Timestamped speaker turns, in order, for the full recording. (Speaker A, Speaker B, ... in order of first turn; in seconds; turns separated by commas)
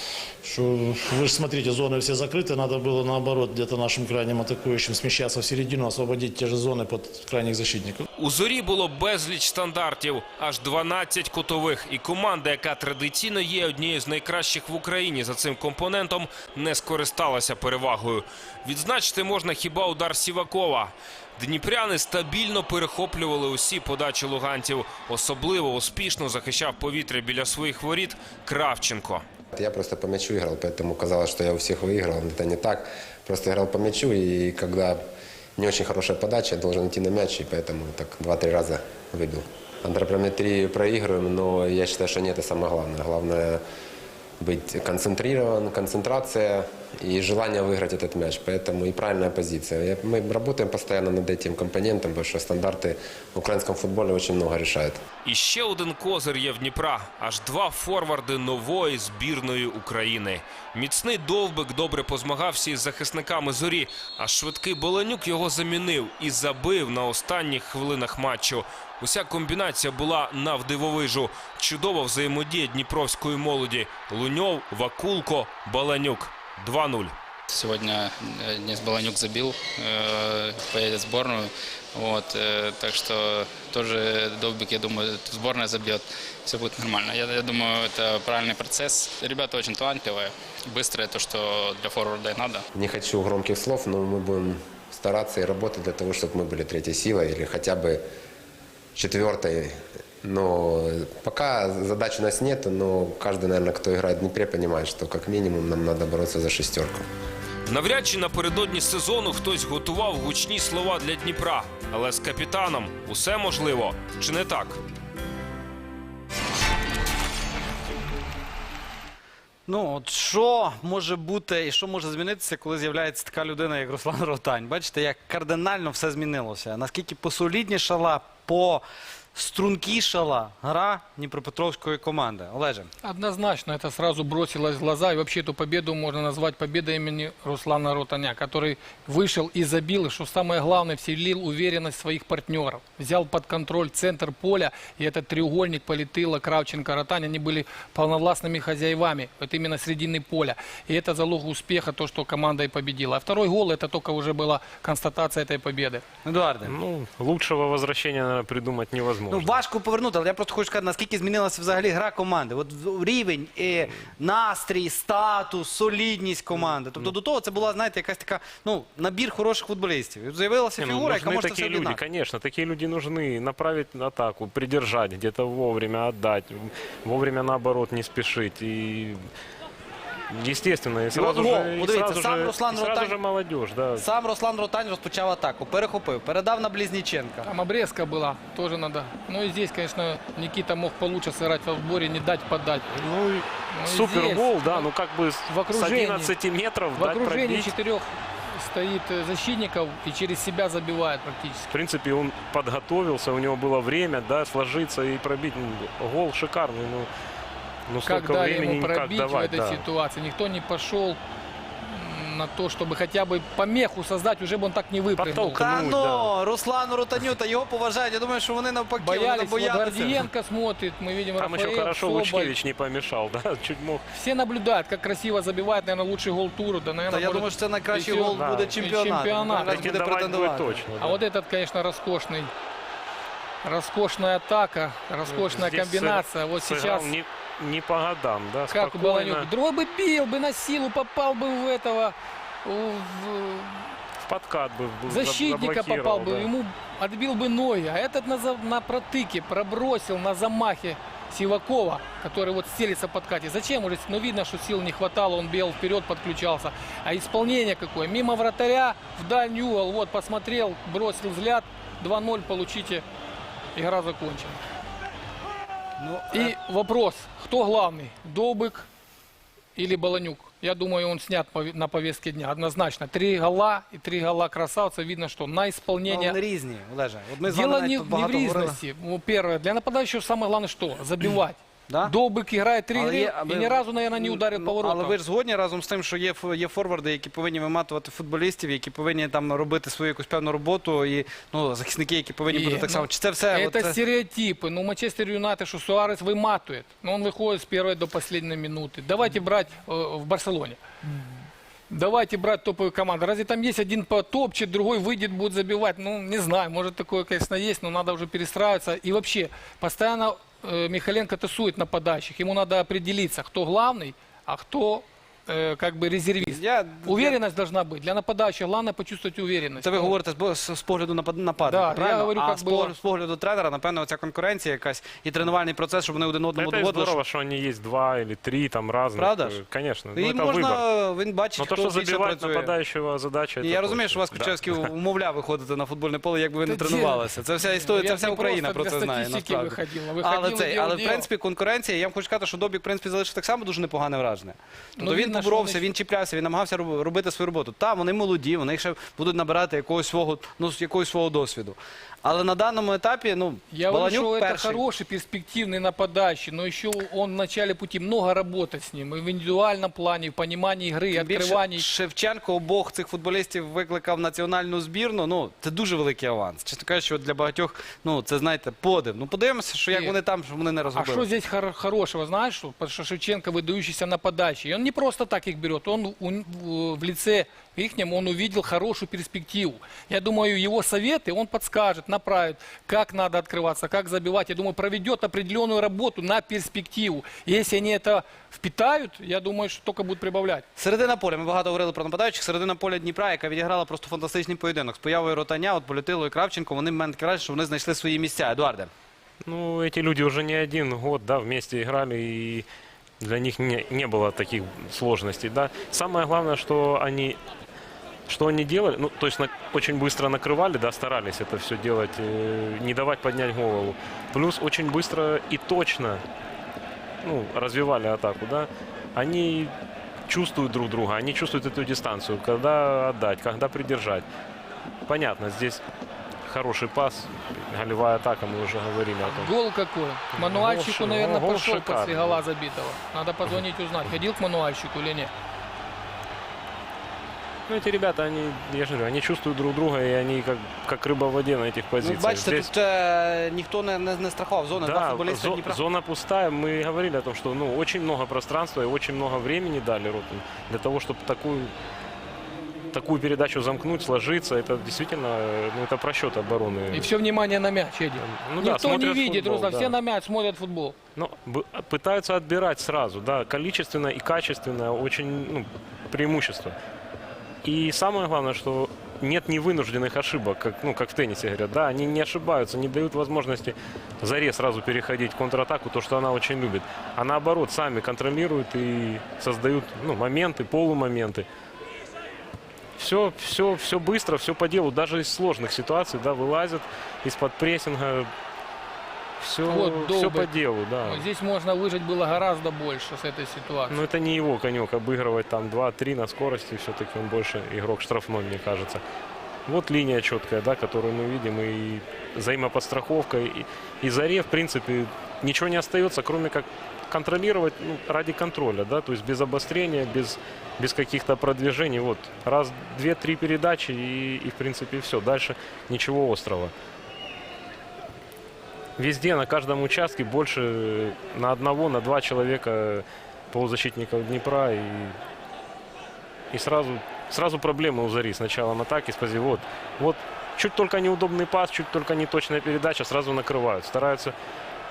Speaker A: 0.5-8.1, Speaker B: 8.2-29.2, Speaker C: 29.5-35.0, Speaker C: 35.6-43.6, Speaker C: 44.4-55.0, Speaker B: 55.2-77.1, Speaker D: 77.5-92.7, Speaker C: 92.7-98.0, Speaker C: 99.0-107.1, Speaker B: 107.7-114.8, Speaker E: 119.7-128.8, Speaker E: 129.3-132.9, Speaker F: 133.0-156.0, Speaker E: 156.2-156.7, Speaker G: 156.7-159.6, Speaker E: 159.3-172.0, Speaker G: 170.8-179.2, Speaker G: 180.3-184.1, Speaker E: 181.1-183.2, Speaker E: 183.9-187.5, Speaker F: 187.4-192.9, Speaker G: 193.0-197.7, Speaker F: 193.7-194.9, Speaker F: 195.5-196.3, Speaker F: 196.9-201.7, Speaker G: 201.7-207.1, Speaker G: 207.9-209.8, Speaker F: 208.0-211.2, Speaker F: 211.8-215.6, Speaker G: 215.2-216.3, Speaker E: 215.6-220.2, Speaker F: 219.0-222.6, Speaker G: 221.4-224.0, Speaker F: 224.1-229.8, Speaker E: 227.1-230.9, Speaker G: 228.2-228.8, Speaker G: 229.6-231.2, Speaker F: 231.0-232.5, Speaker F: 233.6-237.1, Speaker G: 235.3-239.5, Speaker F: 238.7-243.9, Speaker G: 244.2-246.5, Speaker F: 245.1-263.0, Speaker F: 263.8-264.6, Speaker E: 266.0-266.5, Speaker F: 266.3-268.9, Speaker F: 269.8-276.4, Speaker E: 276.1-278.8, Speaker F: 277.5-285.2, Speaker E: 281.9-282.1, Speaker E: 282.9-294.0, Speaker F: 292.5-300.8, Speaker F: 301.9-320.1, Speaker E: 316.4-317.4, Speaker E: 319.8-327.2, Speaker F: 321.6-322.9, Speaker G: 326.5-330.9, Speaker E: 329.2-329.6, Speaker E: 330.1-332.8, Speaker G: 331.5-334.9, Speaker E: 333.6-354.8, Speaker F: 336.6-341.3, Speaker F: 345.0-345.9, Speaker F: 353.7-361.9, Speaker E: 361.1-371.3, Speaker F: 369.9-370.2, Speaker F: 370.9-390.7, Speaker E: 390.8-398.9, Speaker G: 399.4-402.7, Speaker G: 403.2-407.4, Speaker G: 408.3-416.2, Speaker G: 417.2-419.7, Speaker G: 420.3-424.2, Speaker G: 425.1-425.8, Speaker G: 426.5-429.5, Speaker F: 429.2-435.3, Speaker G: 430.3-432.4, Speaker G: 437.7-442.7, Speaker E: 442.0-445.8, Speaker G: 444.8-451.7, Speaker G: 452.9-457.1, Speaker F: 456.9-461.0, Speaker G: 458.2-459.9, Speaker G: 461.2-466.8, Speaker G: 467.6-481.5, Speaker G: 483.0-488.3, Speaker G: 489.4-491.3, Speaker F: 489.7-494.0, Speaker G: 493.9-499.0, Speaker G: 499.7-516.7, Speaker G: 519.0-525.2, Speaker G: 526.5-534.4